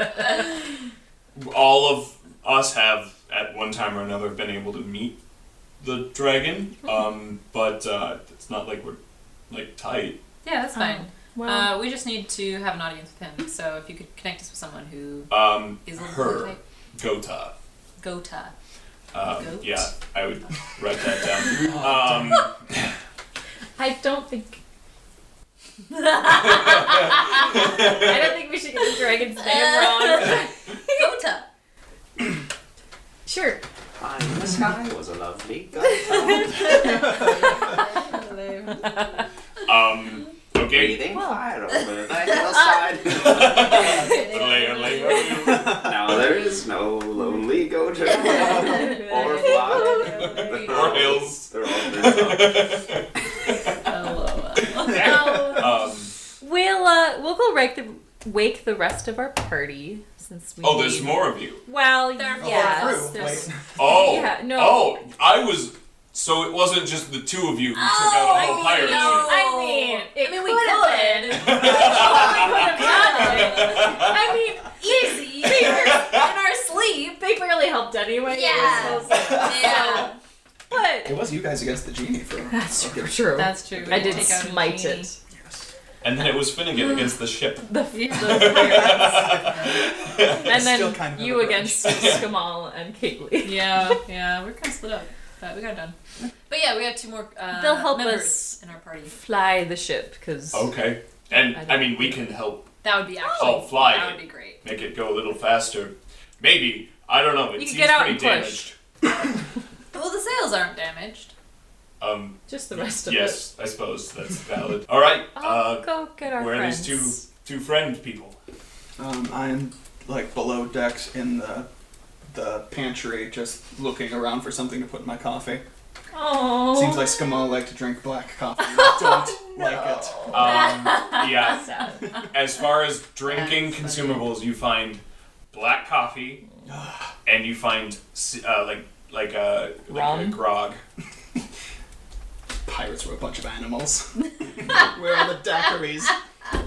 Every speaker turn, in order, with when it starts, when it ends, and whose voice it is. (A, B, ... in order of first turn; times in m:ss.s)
0:01.4-0:05.2 A
0:05.8-0:09.0 A
0:09.5-0:10.2 A
0:10.4-0:16.6 B
0:10.7-0:11.9 C
0:15.3-0:17.6 A
0:18.0-0:18.5 B
0:19.1-0:22.6 A
0:19.2-0:19.9 B
0:23.8-0:24.6 C
0:26.0-0:26.8 B
0:27.5-0:31.1 C
0:29.3-0:31.5 B
0:33.3-0:33.6 C
0:34.0-0:37.0 D
0:36.4-0:39.2 B
0:39.7-0:41.0 A
0:40.6-0:43.8 D
0:41.1-0:41.4 C
0:43.1-0:45.9 A
0:43.2-0:45.6 B
0:45.6-0:52.8 D
0:48.1-0:51.1 B
0:48.4-0:50.6 C
0:50.3-0:53.1 A
0:53.8-0:55.4 B
0:54.8-0:56.1 A
0:54.9-0:55.7 C
0:56.4-1:05.0 C
1:00.6-1:01.6 A
1:02.1-1:03.5 B
1:02.4-1:04.0 E
1:03.8-1:09.4 A
1:07.7-1:16.9 B
1:08.2-1:20.1 C
1:11.3-1:14.1 A
1:15.7-1:16.1 A
1:18.2-1:20.2 B
1:20.7-1:21.2 C
1:21.0-1:23.4 E
1:22.5-1:25.2 C
1:23.3-1:25.1 B
1:26.0-1:30.7 A
1:27.7-1:29.4 C
1:27.9-1:29.7 B
1:30.3-1:32.2 E
1:30.4-1:34.0 C
1:31.8-1:32.3 A
1:33.4-1:36.0 B
1:36.5-1:39.2 B
1:37.5-1:38.6 C
1:39.1-1:40.7 C
1:40.5-1:48.8 A
1:41.6-1:42.1 C
1:42.8-1:44.6 B
1:43.2-1:43.6 C
1:47.6-1:48.7 C
1:49.9-1:51.3 B
1:52.0-1:58.4 A
1:52.5-1:53.4 C
1:55.4-1:57.2 C
1:59.0-2:01.7 E
2:02.3-2:05.6 E
2:06.1-2:07.3 C
2:06.7-2:10.5 E
2:08.8-2:12.1 C
2:10.3-2:11.5 B
2:10.3-2:16.4 A
2:13.2-2:14.3 B
2:16.7-2:17.0 E
2:17.2-2:20.8 A
2:19.9-2:20.4 C
2:22.7-2:26.2 E